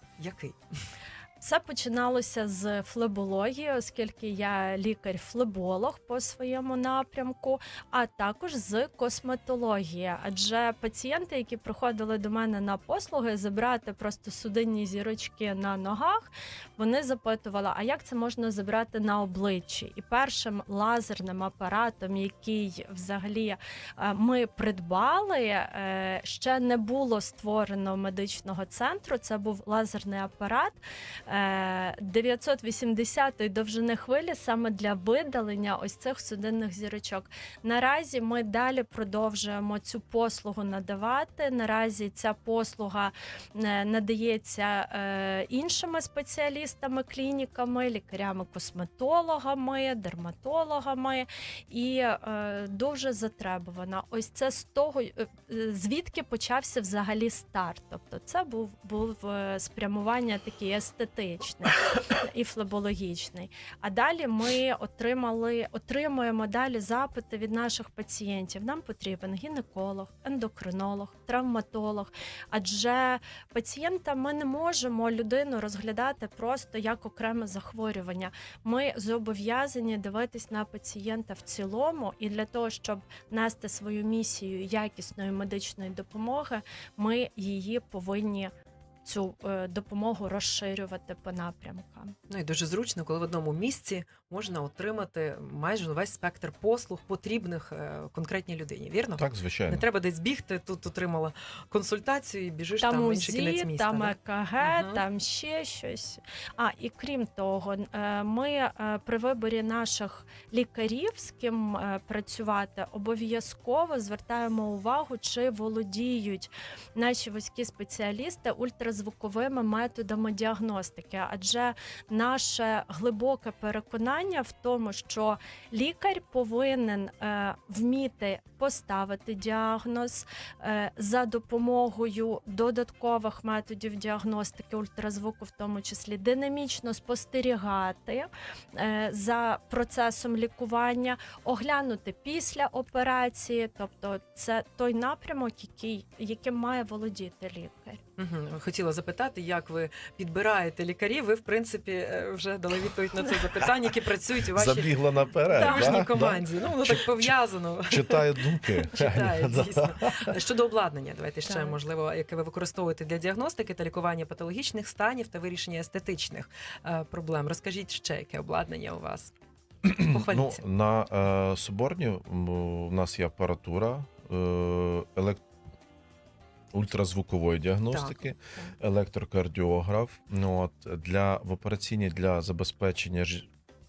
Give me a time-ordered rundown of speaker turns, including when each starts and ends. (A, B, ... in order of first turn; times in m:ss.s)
0:00.2-0:00.6 A
0:01.4-1:28.5 B
1:29.0-1:32.1 B
1:32.3-1:45.0 A
1:39.2-1:39.8 C
1:42.8-2:28.0 B
2:28.2-2:35.0 A
2:34.5-2:40.3 C
2:35.5-2:49.3 A
2:35.5-2:36.1 B
2:41.5-2:41.8 B
2:49.8-2:55.4 C
2:50.0-2:50.6 A
2:56.7-3:03.5 C
2:57.9-2:58.7 A